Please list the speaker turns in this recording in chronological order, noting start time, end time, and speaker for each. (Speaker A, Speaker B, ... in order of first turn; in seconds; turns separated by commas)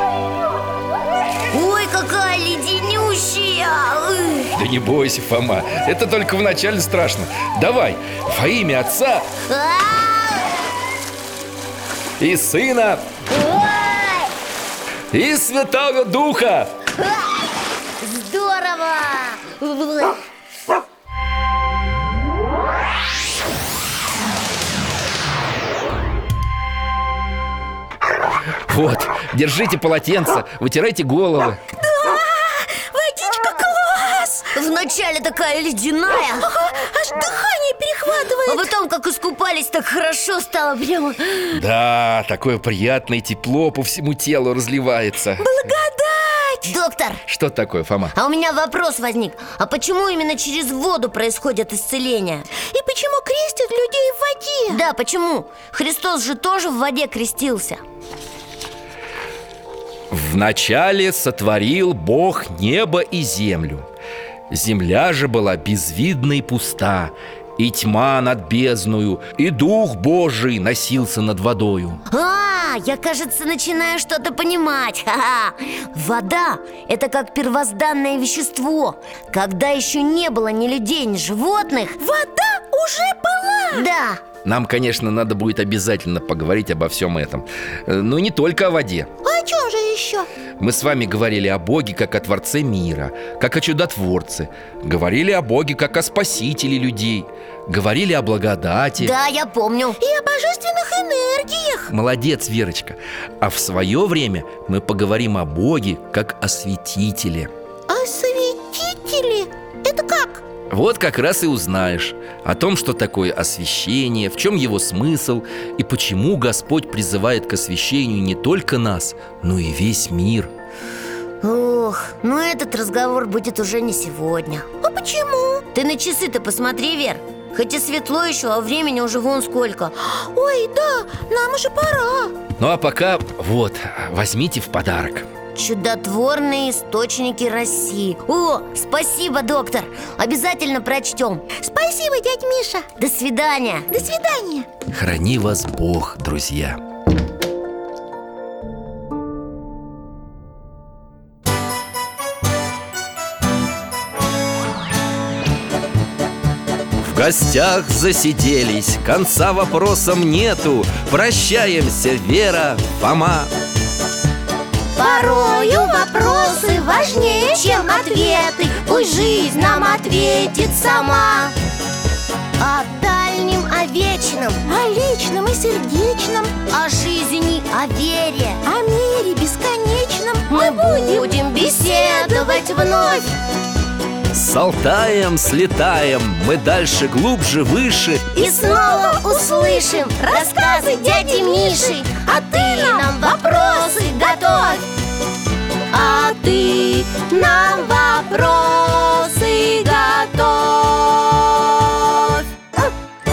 Speaker A: 1.5-4.5, Speaker B: 4.5-9.3, Speaker A: 9.5-10.7, Speaker B: 12.2-13.1, Speaker A: 13.3-14.3, Speaker B: 15.1-16.8, Speaker A: 17.0-17.4, Speaker A: 18.0-20.2, Speaker B: 28.7-31.6, Speaker C: 31.8-34.5, Speaker A: 34.5-36.5, Speaker C: 36.4-38.7, Speaker A: 38.5-41.6, Speaker B: 41.5-45.5, Speaker C: 45.4-46.7, Speaker A: 46.6-47.2, Speaker B: 47.3-48.1, Speaker A: 48.1-52.5, Speaker C: 52.7-54.8, Speaker A: 54.7-57.8, Speaker B: 60.1-63.9, Speaker B: 64.5-72.0, Speaker A: 72.1-82.0, Speaker C: 82.0-83.8, Speaker A: 83.7-84.2, Speaker B: 84.4-89.1, Speaker C: 89.2-90.3, Speaker B: 90.6-99.1, Speaker A: 99.0-100.0, Speaker C: 100.0-101.9, Speaker B: 101.9-107.5, Speaker C: 107.9-110.4, Speaker B: 110.7-120.5, Speaker A: 121.4-124.7, Speaker C: 124.8-125.7, Speaker A: 125.7-129.9, Speaker C: 130.1-132.3, Speaker B: 132.6-135.3, Speaker A: 135.5-141.4, Speaker C: 141.5-142.9, Speaker A: 143.0-143.9, Speaker C: 143.9-144.7, Speaker B: 144.9-146.8, Speaker B: 157.0-163.5, Speaker A: 165.0-171.5, Speaker C: 165.0-170.9, Speaker A: 172.6-174.6, Speaker C: 174.7-176.5, Speaker A: 176.7-178.6, Speaker C: 178.7-183.2, Speaker A: 180.5-183.3, Speaker B: 184.3-188.3, Speaker C: 188.3-194.8, Speaker A: 188.3-194.8, Speaker A: 195.9-202.3